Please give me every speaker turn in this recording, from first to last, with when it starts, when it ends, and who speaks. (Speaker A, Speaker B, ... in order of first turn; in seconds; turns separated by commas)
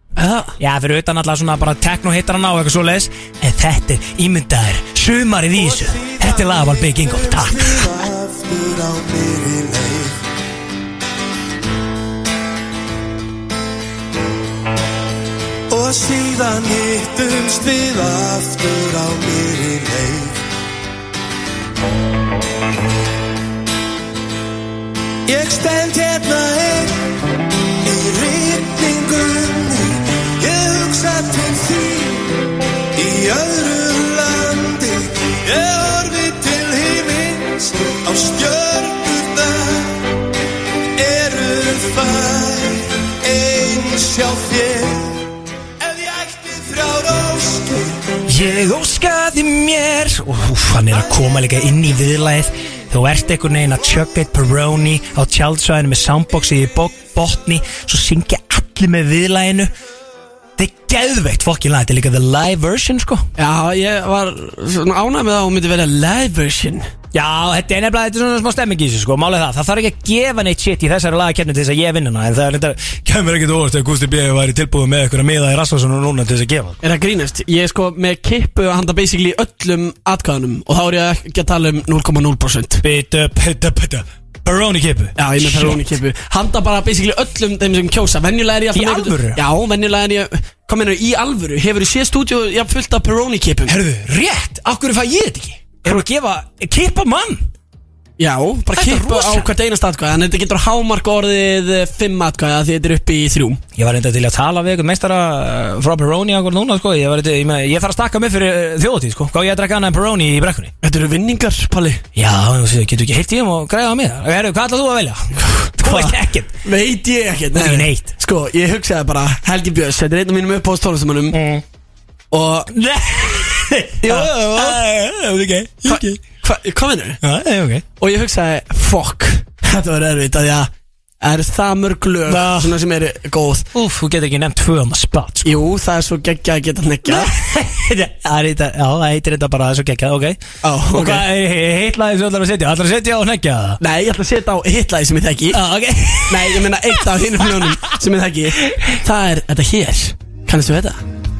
Speaker A: 0.1-0.5, Speaker B: 0.6-7.9, Speaker C: 5.5-10.2, Speaker C: 15.7-20.4, Speaker C: 25.2-27.1, Speaker C: 27.8-32.4, Speaker C: 32.9-40.0, Speaker C: 41.0-45.3, Speaker C: 45.8-48.0, Speaker B: 48.3-59.7, Speaker B: 60.6-63.2, Speaker A: 63.4-66.9, Speaker B: 67.1-76.8, Speaker A: 76.8-82.8, Speaker B: 82.8-85.8, Speaker A: 85.2-93.7, Speaker B: 88.7-89.4, Speaker B: 93.7-97.5, Speaker A: 98.2-103.6, Speaker B: 98.8-99.5, Speaker B: 103.8-110.7, Speaker A: 110.8-112.0, Speaker B: 112.2-116.5, Speaker A: 115.5-121.4, Speaker B: 117.5-118.1, Speaker B: 121.3-121.6, Speaker A: 122.3-122.7, Speaker B: 122.7-126.2, Speaker A: 124.0-124.8, Speaker A: 125.8-127.2, Speaker B: 127.2-127.8, Speaker A: 128.0-130.7, Speaker A: 131.2-133.7, Speaker B: 132.3-132.7, Speaker B: 133.7-135.6, Speaker A: 135.4-137.3, Speaker B: 137.1-140.4, Speaker A: 140.6-141.2, Speaker B: 140.9-143.8, Speaker A: 143.8-145.6, Speaker B: 145.5-147.0, Speaker A: 146.3-151.0, Speaker B: 148.6-148.9